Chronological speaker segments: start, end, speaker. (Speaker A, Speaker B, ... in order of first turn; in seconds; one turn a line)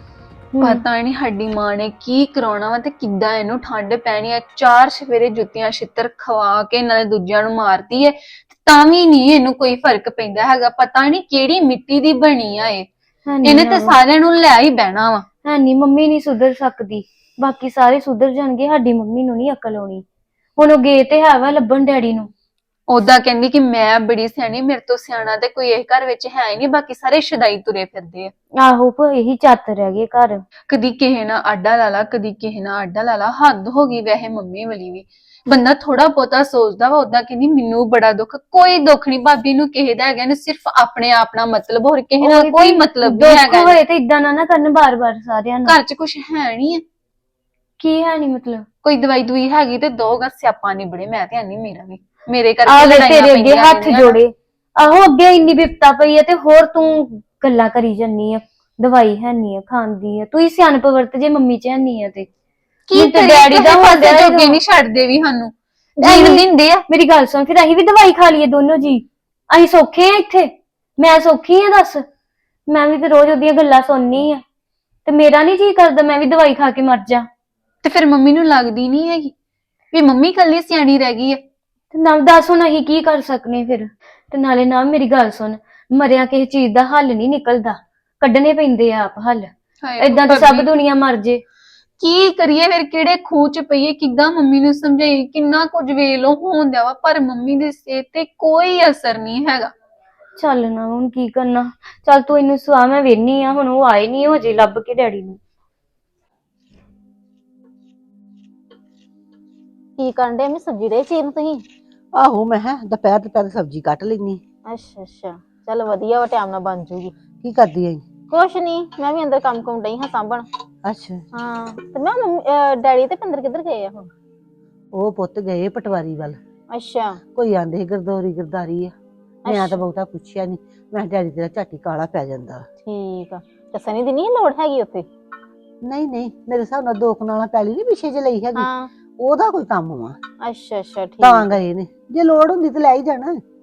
Speaker A: 0.5-0.8
Speaker B: 0.6-12.9
Speaker A: 13.3-14.0
Speaker B: 13.4-15.2
Speaker A: 15.4-20.0
Speaker A: 20.6-22.3
Speaker B: 22.9-28.3
Speaker A: 28.6-30.4
Speaker B: 30.7-43.8
Speaker A: 42.2-45.8
Speaker B: 45.6-46.8
Speaker A: 47.8-48.6
Speaker B: 48.8-54.2
Speaker A: 52.6-62.3
Speaker B: 62.9-66.8
Speaker A: 63.0-64.6
Speaker A: 66.0-72.0
Speaker A: 72.7-74.4
Speaker A: 75.0-77.2
Speaker B: 77.8-79.3
Speaker B: 79.9-81.4
Speaker A: 81.9-91.4
Speaker B: 89.8-90.7
Speaker B: 92.0-99.7
Speaker A: 100.4-105.4
Speaker C: 110.0-111.6
Speaker D: 112.1-114.4
Speaker C: 114.7-117.1
Speaker D: 117.4-118.0
Speaker C: 118.3-120.5
Speaker D: 120.8-121.2
Speaker C: 121.3-124.1
Speaker D: 124.9-126.4
Speaker C: 126.7-127.2
Speaker D: 127.3-128.9
Speaker D: 129.4-132.7
Speaker C: 129.4-129.8
Speaker C: 132.8-135.1
Speaker D: 135.8-140.2
Speaker C: 138.6-138.9
Speaker C: 140.4-141.6
Speaker D: 141.2-143.4